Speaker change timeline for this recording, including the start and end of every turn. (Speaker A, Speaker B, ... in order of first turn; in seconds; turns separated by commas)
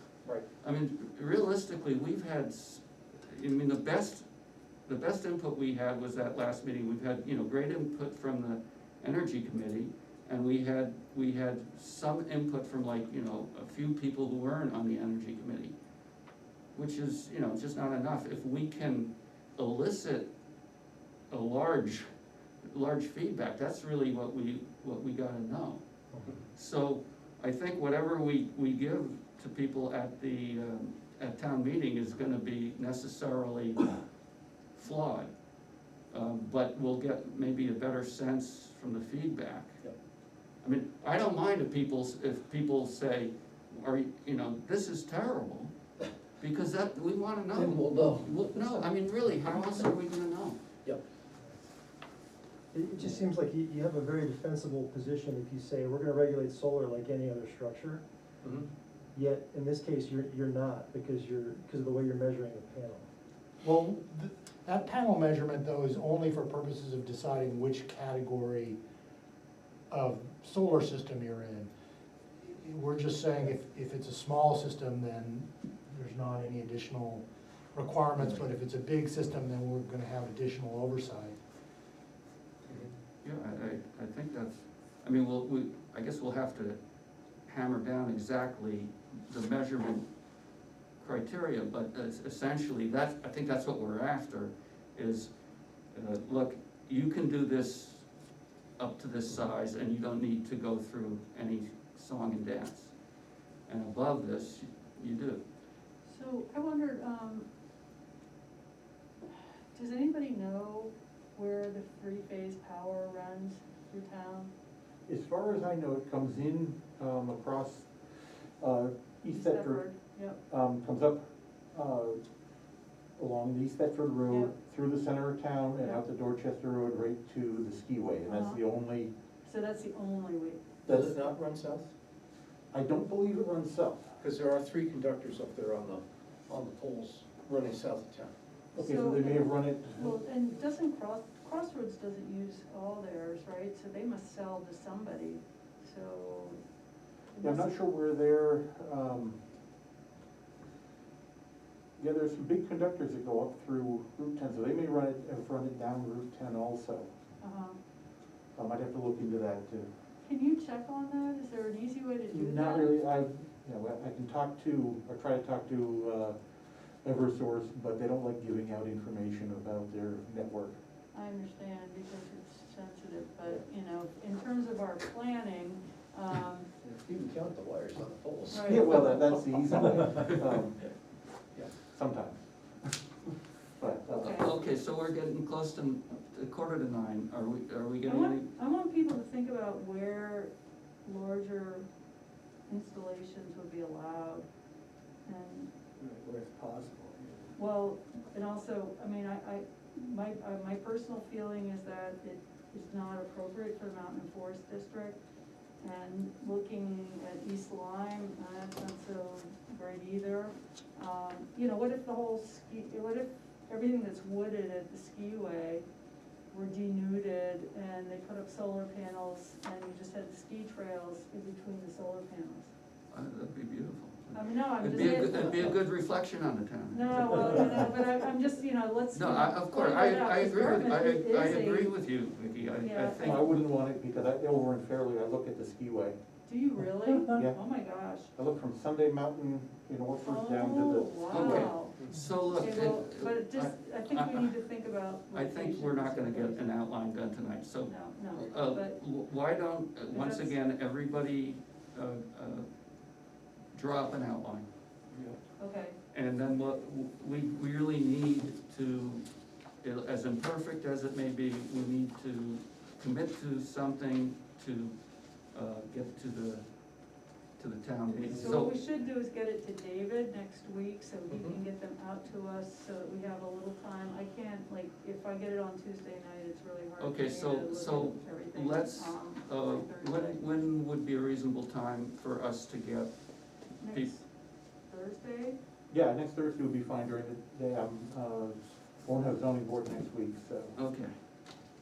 Speaker A: 0.6-4.2, Speaker A: 4.8-15.7, Speaker A: 16.7-20.3, Speaker A: 21.3-22.0, Speaker A: 22.6-25.8, Speaker A: 26.5-33.9, Speaker A: 34.8-35.3, Speaker A: 36.1-39.7, Speaker A: 40.6-45.7, Speaker A: 46.4-50.6, Speaker B: 47.5-48.8, Speaker C: 52.7-58.0, Speaker C: 59.1-63.1, Speaker D: 63.6-68.8, Speaker D: 69.9-71.7, Speaker D: 72.4-81.4, Speaker A: 83.2-86.8, Speaker A: 87.5-90.0, Speaker A: 91.0-95.3, Speaker A: 95.9-98.0, Speaker A: 98.8-102.9, Speaker A: 103.7-105.4, Speaker E: 106.0-107.5, Speaker E: 109.3-114.5, Speaker F: 115.1-117.9, Speaker F: 118.6-119.8, Speaker E: 119.3-120.4, Speaker F: 120.5-122.2, Speaker F: 123.2-129.1, Speaker E: 124.3-124.5, Speaker E: 128.3-128.6, Speaker E: 129.4-130.6, Speaker F: 130.8-131.3, Speaker B: 130.9-131.9, Speaker F: 132.7-134.2, Speaker B: 134.2-138.3, Speaker F: 138.7-140.1, Speaker E: 138.8-146.6, Speaker E: 147.3-147.7, Speaker F: 147.4-149.4, Speaker F: 152.0-157.1, Speaker E: 157.4-157.8, Speaker F: 158.6-159.9, Speaker E: 160.2-162.9, Speaker F: 162.3-166.3, Speaker F: 167.0-170.8, Speaker E: 171.1-176.7, Speaker B: 176.8-179.0, Speaker E: 178.5-179.3, Speaker F: 178.6-180.8, Speaker F: 181.8-182.4, Speaker F: 183.8-184.5, Speaker E: 184.1-184.5, Speaker A: 184.1-188.5, Speaker E: 188.1-190.5, Speaker E: 191.0-191.8, Speaker E: 192.7-194.4, Speaker E: 195.2-195.7, Speaker B: 196.4-196.8, Speaker E: 197.6-205.2, Speaker E: 205.8-215.8, Speaker E: 216.5-222.7, Speaker A: 223.1-227.9, Speaker E: 224.3-225.8, Speaker E: 226.9-231.9, Speaker A: 229.1-233.4, Speaker E: 232.8-233.4, Speaker F: 233.2-236.2, Speaker E: 236.4-238.3, Speaker F: 237.3-237.6, Speaker F: 238.3-241.8, Speaker E: 240.2-242.0, Speaker A: 241.3-244.6, Speaker E: 242.5-246.7, Speaker A: 245.3-252.7, Speaker E: 247.8-249.0, Speaker E: 250.1-250.5, Speaker A: 253.7-254.7, Speaker E: 255.6-255.9, Speaker A: 256.1-259.2, Speaker A: 259.8-264.9, Speaker A: 265.5-266.6, Speaker A: 267.6-268.7, Speaker E: 268.1-280.5, Speaker B: 271.3-271.6, Speaker A: 277.0-283.1, Speaker E: 283.8-284.2, Speaker A: 283.9-284.1, Speaker E: 284.9-285.6, Speaker F: 285.9-290.7, Speaker A: 290.8-291.1